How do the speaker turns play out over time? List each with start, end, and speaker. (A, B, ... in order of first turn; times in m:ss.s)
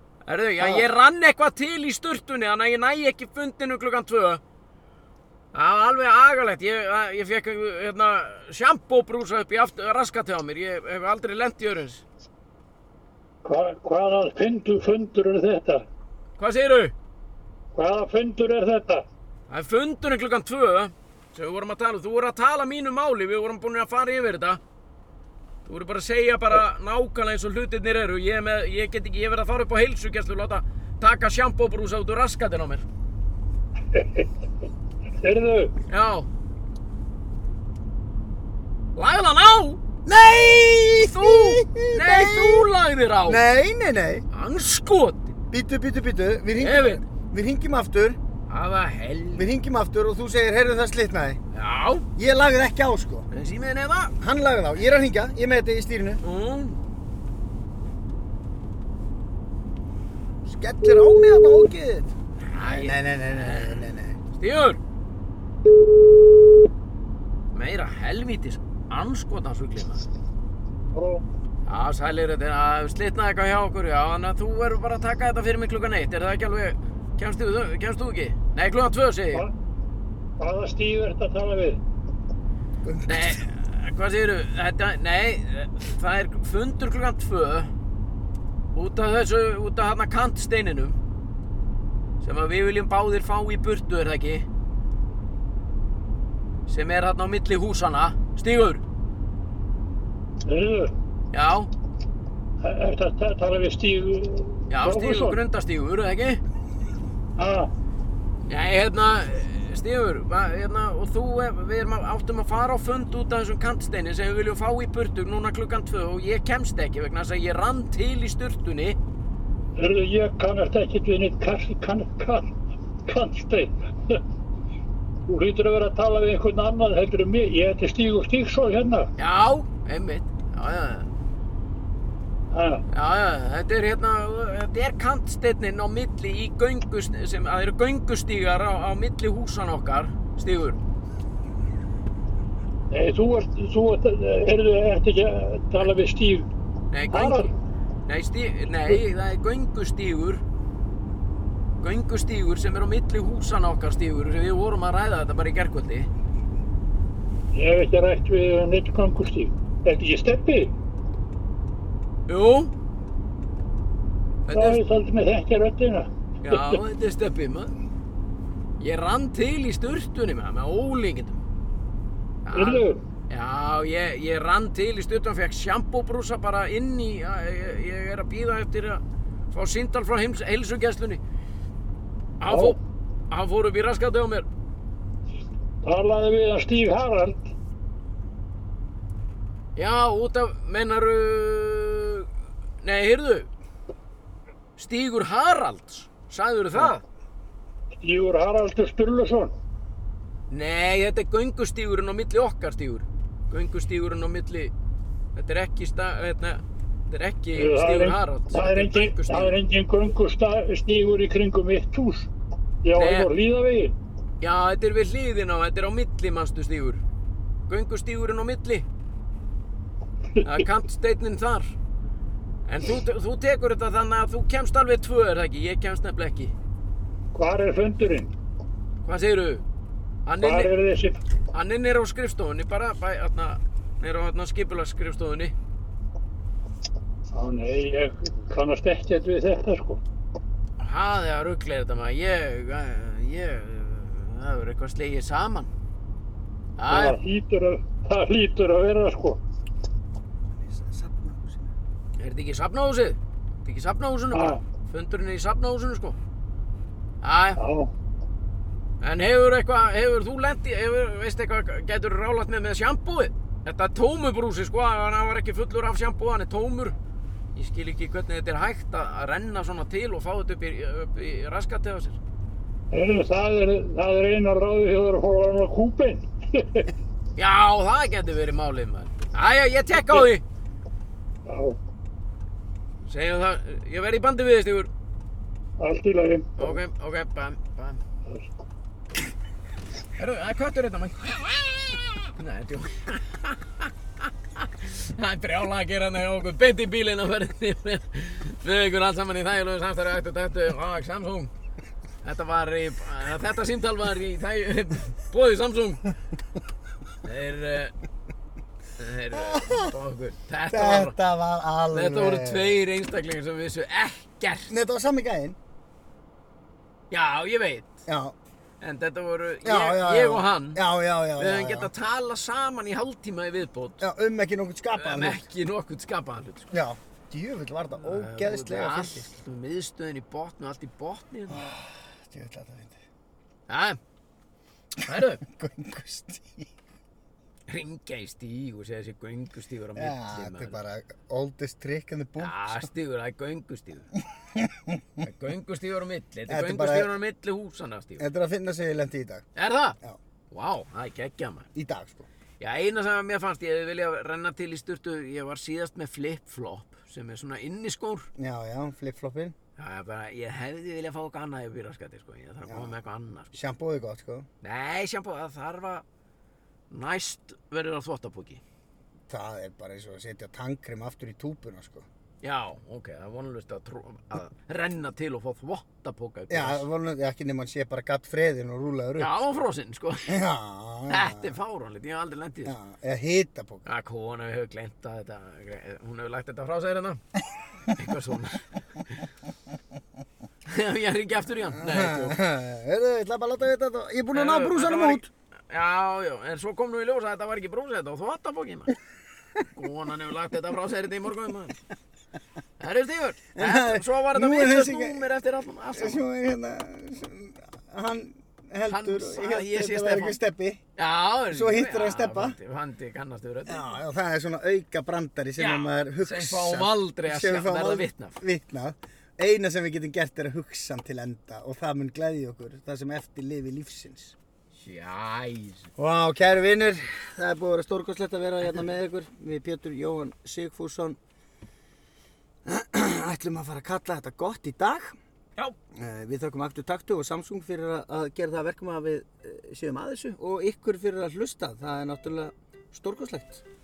0:00.2-0:04.4 A
0:00.6-0:00.9 B
0:05.5-0:12.0 A
0:13.4-0:15.8 B
0:16.4-0:16.9 A
0:17.7-0:19.1 B
0:19.5-0:24.6 A
0:25.6-0:32.8 A
0:33.9-0:34.3 B
0:35.2-0:35.7 B
0:35.9-0:36.3 A
0:39.0-0:39.8 A
0:40.0-0:42.7 C
0:41.0-0:43.4 A
0:43.3-0:44.2 C
0:44.3-0:45.4 A
0:45.5-0:48.2 C
0:46.6-0:47.0 A
0:48.5-0:49.5 A
0:49.4-0:51.4 C
0:51.5-0:52.1 A
0:52.2-0:53.3 C
0:53.3-0:54.1 A
0:54.2-0:56.2 C
0:56.2-0:56.8 A
1:00.4-1:04.2 C
1:02.4-1:04.8 A
1:07.5-1:10.1 A
1:10.9-1:11.2 B
1:11.7-1:19.5 A
1:20.4-1:21.8 B
1:22.8-1:23.4 C
1:23.1-1:27.7 A
1:28.7-1:31.0 A
1:32.2-1:34.5 A
1:36.7-1:38.8 A
1:40.4-1:40.9 B
1:41.3-1:41.7 A
1:42.6-1:45.4 B
1:44.7-1:46.4 A
1:47.4-1:47.7 B
1:48.5-1:59.0 A
1:59.8-2:04.2 B
2:05.3-2:09.1 B
2:09.2-2:11.1 A
2:12.5-2:12.8 B
2:12.9-2:20.8 A
2:22.9-2:26.5 B
2:26.9-2:27.5 A
2:27.1-2:27.5 B
2:28.1-2:30.4 A
2:31.8-2:36.1 A
2:37.5-2:40.7 B
2:42.3-2:42.7 A
2:44.5-2:44.8 A
2:44.5-2:46.8 B
2:46.4-2:47.7 A
2:48.8-2:51.4 A
2:52.4-3:01.2 A
2:52.5-2:53.0 B
3:02.4-3:02.8 A
3:02.5-3:02.8 B
3:03.3-3:04.5 A
3:05.8-3:07.5 B
3:09.8-3:12.3 A
3:12.8-3:13.5 A
3:14.8-3:17.0 A
3:18.0-3:19.5 B
3:20.5-3:24.7 A
3:25.4-3:29.6 A
3:27.6-3:32.3 B
3:32.8-3:34.0 B
3:33.0-3:33.3 A
3:34.4-3:37.0 A
3:37.7-3:38.9 A
3:40.4-3:40.7 B
3:40.4-3:41.8 A
3:42.7-3:46.5 A
3:47.3-3:48.3 B
3:49.0-3:49.6 A
3:50.3-3:50.7 A
3:50.4-3:51.2 B
3:51.5-3:55.5 A
3:57.3-4:00.0 B
4:00.8-4:05.7 A
4:06.8-4:07.2 A
4:06.9-4:09.4 B
4:10.6-4:11.7 C
4:12.2-4:16.2 A
4:14.3-4:14.6 B
4:17.2-4:17.6 A
4:17.6-4:17.9 B
4:19.0-4:27.0 A
4:27.6-4:32.2 A
4:32.9-4:36.9 B
4:37.4-4:40.4 A
4:41.5-4:41.8 B
4:43.1-4:44.9 A
4:45.8-4:46.8 B
4:46.6-4:48.0 A
4:50.2-5:01.5 A
5:02.2-5:06.1 A
5:07.2-5:07.9 A
5:09.0-5:11.2 A
5:09.3-5:09.9 C
5:10.7-5:12.8 C
5:11.9-5:14.7 A
5:14.7-5:15.6 C
5:17.1-5:18.0 A
5:18.1-5:18.4 C
5:18.8-5:20.8 A
5:19.6-5:21.9 C
5:21.4-5:24.0 A
5:24.0-5:25.4 C
5:25.0-5:26.7 A
5:26.7-5:29.4 C
5:28.0-5:31.7 A
5:31.5-5:33.0 C
5:33.7-5:34.0 A
5:35.0-5:35.4 A
5:35.4-5:36.7 C
5:37.7-5:40.8 A
5:40.0-5:42.9 C
5:42.4-5:44.1 A
5:44.4-5:45.2 C
5:45.2-5:48.2 A
5:46.5-5:47.1 C
5:48.2-5:49.5 C
5:49.6-5:50.0 A
5:50.5-5:51.7 A
5:51.8-5:52.3 C
5:52.6-5:58.3 A
5:58.4-5:59.6 C
5:59.8-6:03.6 A
6:02.7-6:02.9 C
6:03.5-6:04.5 C
6:04.6-6:06.0 A
6:06.9-6:08.6 A
6:09.3-6:12.1 C
6:12.4-6:16.9 A
6:16.5-6:19.4 C
6:19.2-6:20.4 A
6:20.3-6:21.5 C
6:21.1-6:22.8 A
6:22.7-6:23.9 C
6:23.9-6:27.2 A
6:27.9-6:29.3 A
6:30.7-6:32.4 A
6:31.7-6:35.3 C
6:34.3-6:39.0 A
6:39.7-6:41.8 A
6:42.8-6:46.2 A
6:43.6-6:45.2 C
6:45.9-6:50.8 C
6:48.9-6:50.4 A
6:51.0-6:54.0 A
6:51.5-6:52.6 C
6:53.7-7:04.4 C
6:55.6-6:58.4 A
7:04.8-7:05.9 A
7:06.0-7:11.2 C
7:12.7-7:15.2 C
7:15.9-7:23.6 C